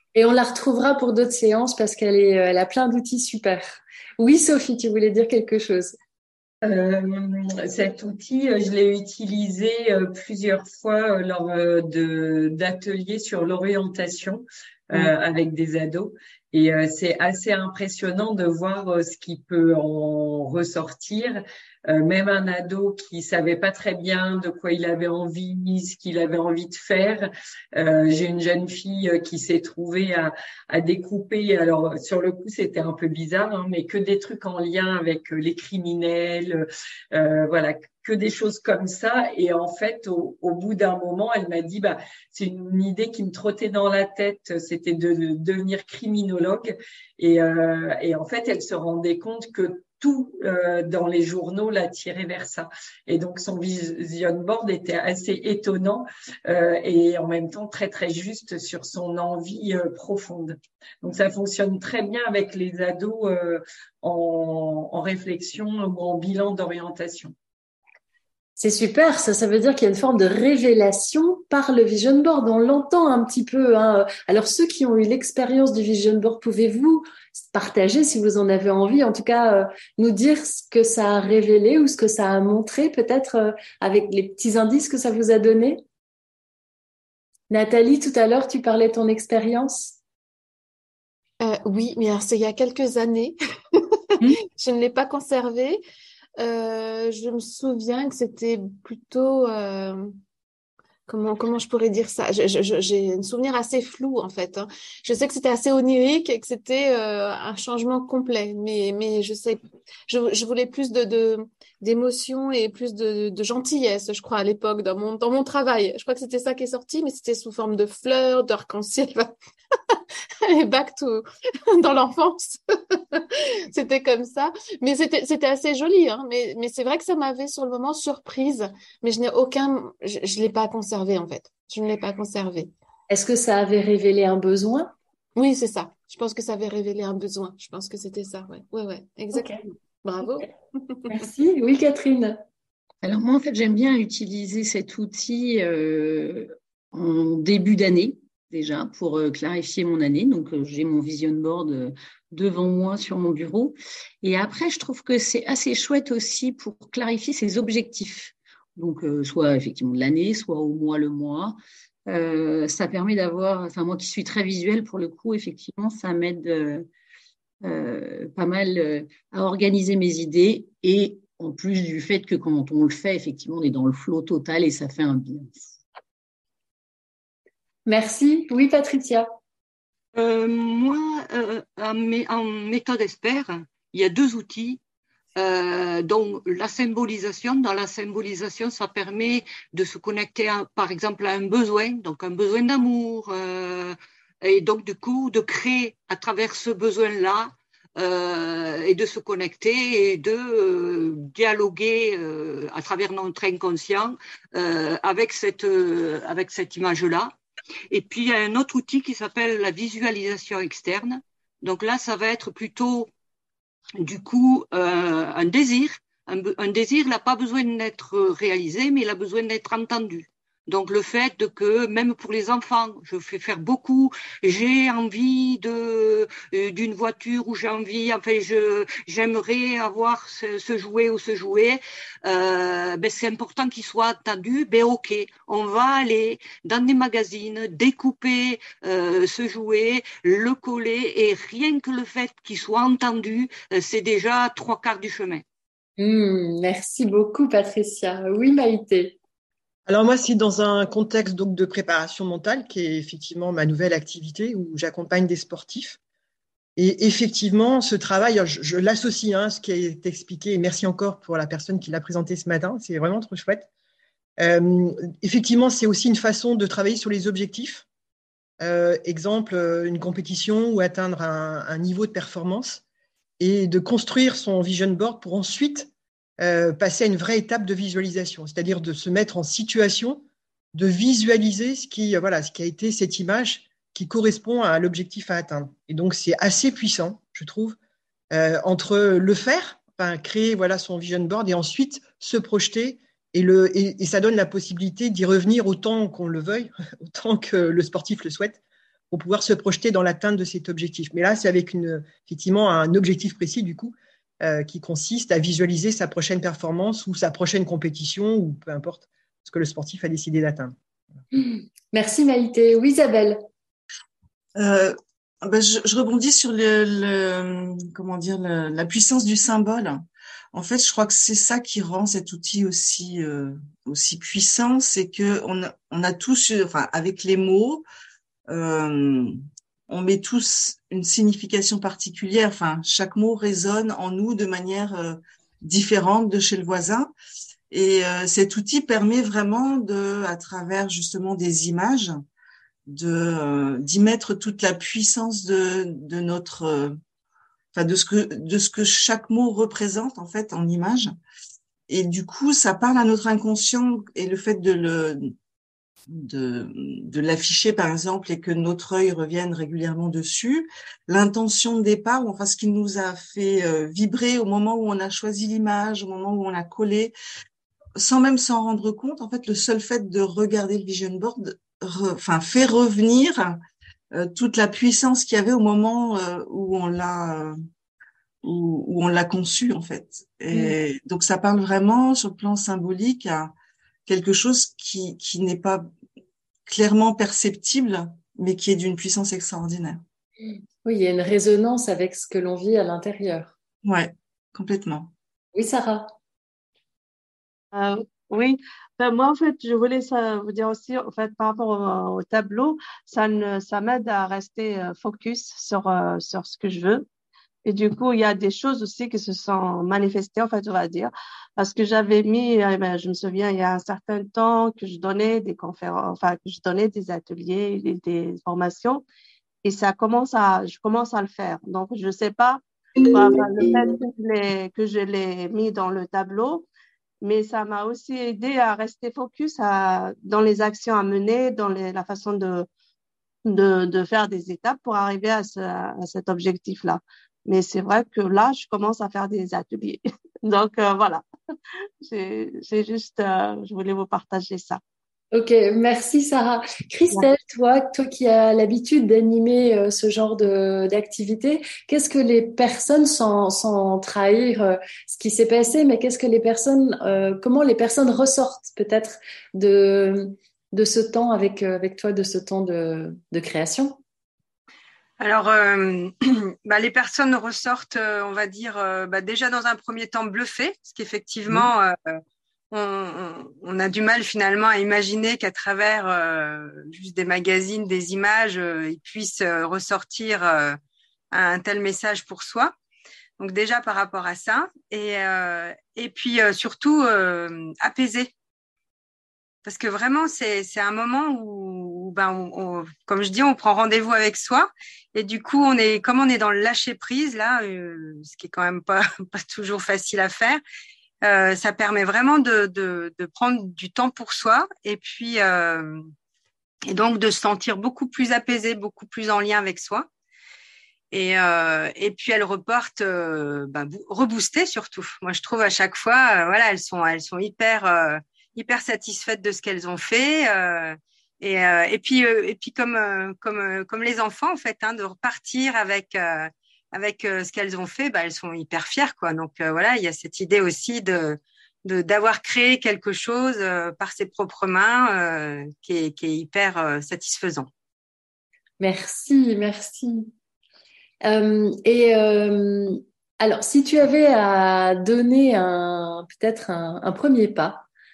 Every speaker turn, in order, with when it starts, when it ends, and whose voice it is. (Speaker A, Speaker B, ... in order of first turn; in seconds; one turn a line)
Speaker A: 0.1-6.0
Speaker B: 6.7-67.3
Speaker A: 68.6-85.8
Speaker A: 87.5-90.0
Speaker C: 91.4-95.8
Speaker C: 96.4-100.2
Speaker C: 101.1-119.3
Speaker C: 119.9-132.7
Speaker A: 133.1-134.9
Speaker C: 135.4-141.2
Speaker A: 141.1-142.4
Speaker D: 143.0-166.9
Speaker D: 167.6-175.8
Speaker A: 177.9-179.3
Speaker E: 180.2-184.8
Speaker E: 185.4-207.3
Speaker E: 207.9-213.1
Speaker E: 214.0-245.4
Speaker A: 246.0-249.2
Speaker F: 249.9-256.0
Speaker F: 256.8-263.7
Speaker F: 264.4-267.9
Speaker F: 268.6-272.8
Speaker F: 273.4-287.8
Speaker F: 288.3-298.6
Speaker F: 299.1-310.8
Speaker A: 311.3-313.4
Speaker G: 314.6-327.8
Speaker G: 328.5-329.3
Speaker G: 329.9-337.1
Speaker G: 337.7-342.2
Speaker G: 342.9-347.0
Speaker G: 347.8-351.1
Speaker G: 351.9-355.3
Speaker G: 356.1-367.1
Speaker G: 368.0-373.6
Speaker G: 374.1-377.6
Speaker G: 378.4-383.5
Speaker G: 384.1-385.9
Speaker G: 386.7-390.0
Speaker A: 390.9-393.5
Speaker G: 393.9-395.1
Speaker A: 395.6-396.1
Speaker H: 397.7-407.1
Speaker H: 407.6-419.0
Speaker H: 419.6-426.7
Speaker H: 427.2-432.7
Speaker H: 433.5-441.2
Speaker H: 442.0-444.8
Speaker A: 445.3-464.0
Speaker I: 465.2-472.2
Speaker I: 472.7-480.8
Speaker I: 481.3-482.7
Speaker I: 483.4-488.3
Speaker I: 489.6-500.6
Speaker I: 501.2-506.0
Speaker I: 506.9-510.1
Speaker I: 511.1-537.7
Speaker A: 538.8-540.3
Speaker A: 541.2-547.8